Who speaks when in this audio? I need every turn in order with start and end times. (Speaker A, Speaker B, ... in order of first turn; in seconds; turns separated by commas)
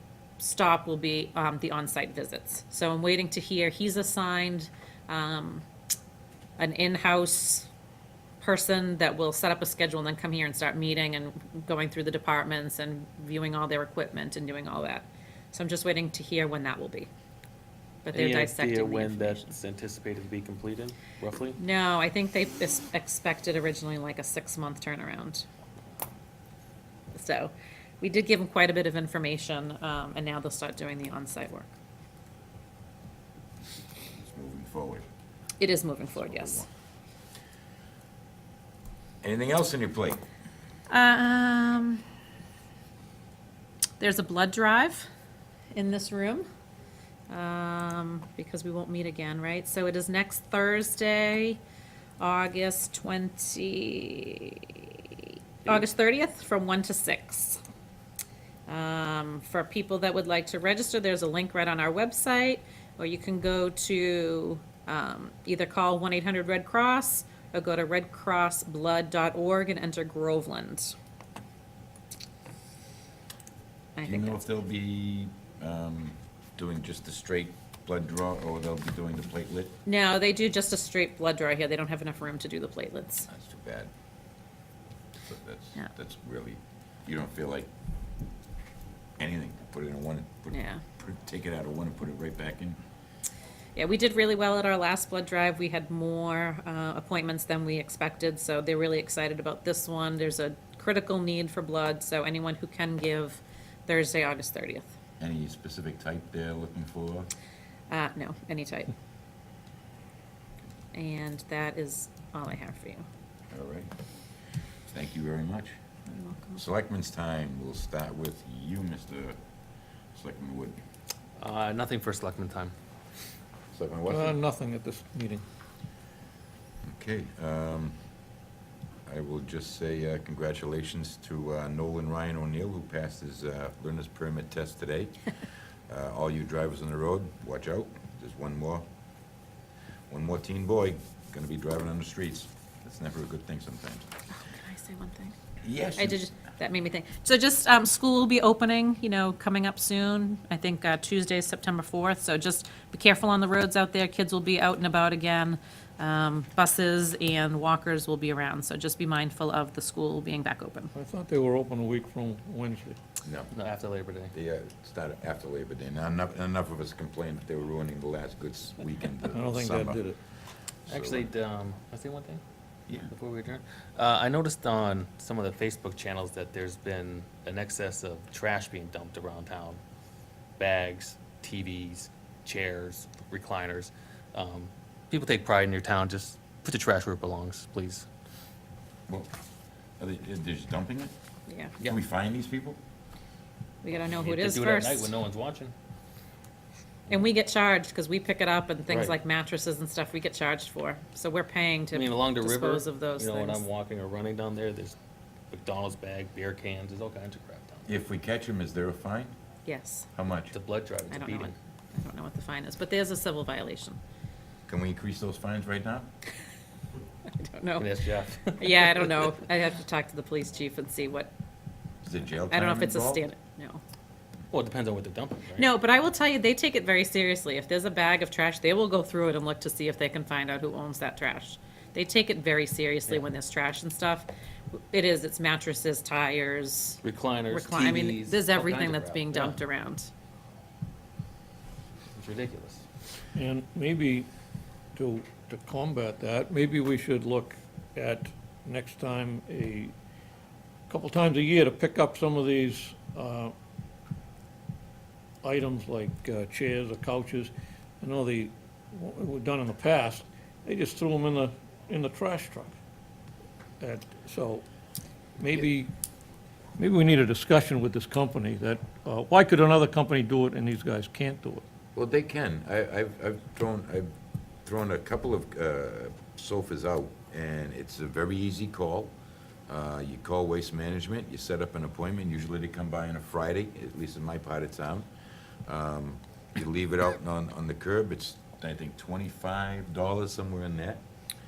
Speaker A: 0.4-5.6, Speaker A: 6.6-7.7, Speaker A: 8.4-17.1, Speaker A: 18.0-19.5, Speaker B: 18.1-21.6, Speaker A: 21.6-25.4, Speaker A: 27.1-31.7, Speaker C: 34.1-35.0, Speaker A: 35.6-36.6, Speaker C: 36.1-36.7, Speaker C: 39.2-40.2, Speaker A: 40.9-42.0, Speaker A: 44.0-45.0, Speaker A: 45.7-46.5, Speaker A: 47.3-51.6, Speaker A: 52.2-57.6, Speaker A: 58.7-70.9, Speaker A: 74.0-74.4, Speaker C: 74.0-79.7, Speaker A: 79.8-83.3, Speaker C: 83.3-83.9, Speaker C: 85.2-87.7, Speaker C: 89.2-92.8, Speaker A: 90.5-90.8, Speaker A: 93.7-104.9, Speaker C: 105.2-107.3, Speaker A: 107.9-108.9, Speaker A: 110.9-113.0, Speaker C: 113.5-113.9, Speaker C: 114.9-115.7, Speaker A: 116.1-116.6, Speaker C: 116.5-119.3, Speaker C: 120.1-120.8, Speaker B: 121.4-122.7, Speaker C: 123.7-124.4, Speaker D: 124.1-125.4, Speaker C: 126.8-128.0, Speaker C: 129.1-135.3, Speaker C: 135.9-138.8, Speaker C: 140.1-144.1, Speaker A: 144.3-145.3, Speaker C: 145.6-146.2, Speaker A: 145.9-160.9, Speaker D: 160.9-163.0, Speaker C: 163.2-163.5, Speaker B: 163.5-164.3, Speaker C: 164.3-170.0, Speaker D: 169.3-170.2, Speaker C: 170.9-171.3, Speaker B: 170.9-172.4, Speaker B: 173.1-179.8, Speaker B: 180.6-188.1, Speaker C: 190.0-191.1, Speaker A: 191.5-191.7, Speaker C: 191.8-192.8, Speaker A: 193.8-195.1, Speaker B: 194.2-195.7, Speaker A: 197.1-203.6, Speaker B: 198.9-199.1, Speaker B: 201.9-204.9, Speaker B: 205.5-208.0, Speaker C: 207.9-209.3, Speaker A: 209.7-210.1, Speaker C: 210.1-210.5, Speaker B: 210.5-211.5, Speaker A: 211.1-214.0, Speaker C: 214.7-216.1, Speaker A: 217.3-217.9, Speaker B: 217.8-219.1, Speaker A: 218.6-221.3, Speaker C: 222.0-223.2, Speaker A: 222.5-223.8, Speaker B: 224.5-225.7, Speaker A: 225.6-234.3, Speaker A: 234.9-237.0, Speaker B: 237.0-239.6, Speaker A: 237.5-240.1, Speaker B: 242.1-242.8, Speaker D: 243.3-244.3, Speaker D: 244.9-249.9, Speaker D: 250.9-253.5, Speaker D: 255.4-262.8, Speaker D: 263.8-264.6, Speaker D: 265.4-265.9, Speaker D: 266.8-271.6, Speaker C: 271.9-274.1, Speaker C: 274.6-279.1, Speaker C: 279.7-285.1, Speaker C: 285.6-291.0